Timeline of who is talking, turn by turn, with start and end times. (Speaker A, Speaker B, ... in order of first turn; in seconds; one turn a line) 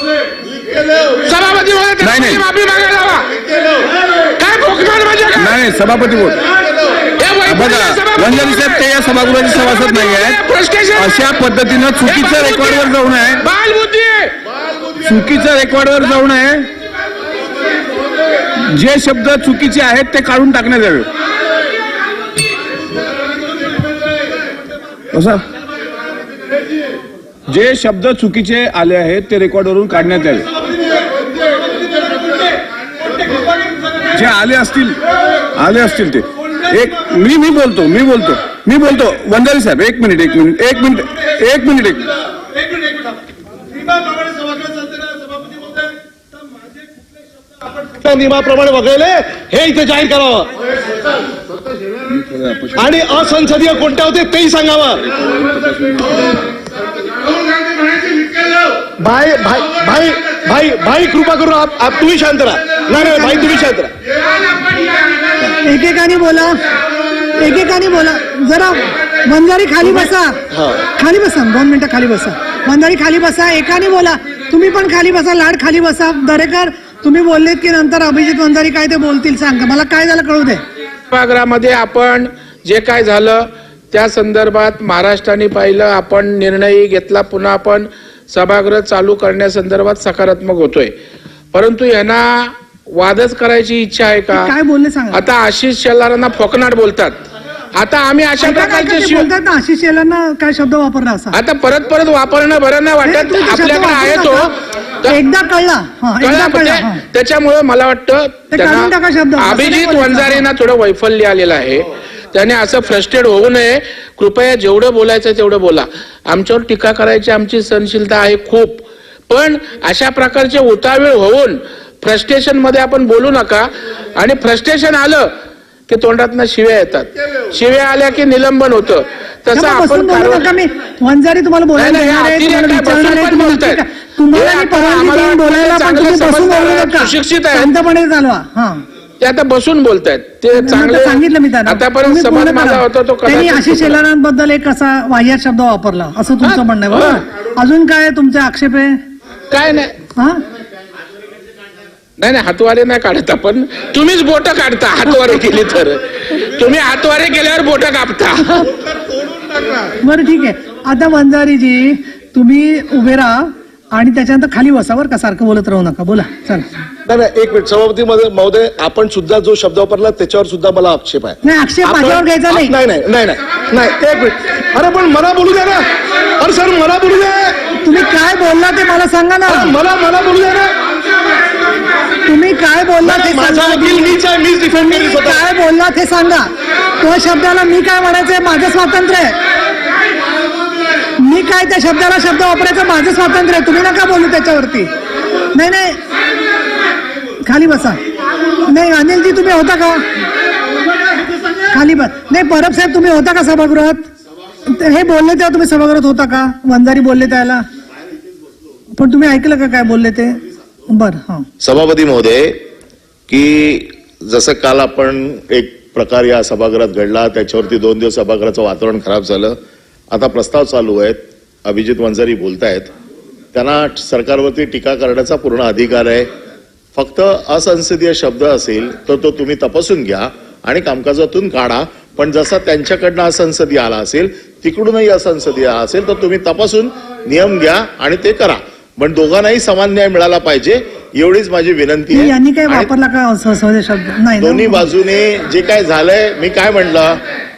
Speaker A: 1.2-3.3
Speaker B: 2.0-2.4
Speaker A: 4.4-5.6
Speaker B: 5.3-6.4
Speaker A: 7.2-14.3
Speaker B: 7.5-10.4
Speaker B: 10.9-13.4
Speaker B: 15.0-16.7
Speaker B: 18.6-21.1
Speaker B: 25.1-25.4
Speaker B: 27.5-30.5
Speaker B: 34.1-35.0
Speaker B: 35.5-42.1
Speaker C: 47.8-50.5
Speaker B: 52.1-52.7
Speaker C: 52.7-55.0
Speaker C: 59.0-63.9
Speaker D: 63.0-63.5
Speaker D: 65.6-66.5
Speaker D: 67.4-70.3
Speaker C: 69.8-70.8
Speaker D: 71.0-80.6
Speaker A: 81.1-90.9
Speaker A: 91.5-94.5
Speaker D: 94.3-95.2
Speaker A: 95.1-97.2
Speaker A: 97.8-99.3
Speaker D: 98.4-101.4
Speaker A: 101.3-104.5
Speaker D: 103.0-104.5
Speaker D: 105.1-107.0
Speaker A: 106.2-123.7
Speaker D: 108.5-110.4
Speaker A: 124.2-125.3
Speaker A: 125.9-130.5
Speaker D: 129.5-138.8
Speaker A: 131.8-137.7
Speaker A: 139.2-144.0
Speaker D: 140.5-149.0
Speaker A: 146.4-147.2
Speaker A: 149.5-149.9
Speaker A: 152.2-158.7
Speaker D: 160.0-166.7
Speaker C: 167.1-175.8
Speaker D: 171.4-172.7
Speaker C: 176.4-177.5
Speaker D: 177.8-179.7
Speaker C: 179.4-180.7
Speaker D: 182.2-184.2
Speaker C: 183.0-185.4
Speaker D: 184.8-189.4
Speaker D: 191.2-194.9
Speaker D: 195.5-196.0
Speaker D: 197.4-198.0
Speaker D: 198.6-200.0
Speaker D: 201.7-204.1
Speaker D: 204.7-207.6
Speaker D: 208.9-211.4
Speaker E: 211.6-212.6
Speaker E: 213.3-219.6
Speaker E: 220.1-222.9
Speaker E: 223.5-226.3
Speaker E: 226.9-242.9
Speaker D: 242.1-244.9
Speaker E: 244.4-247.2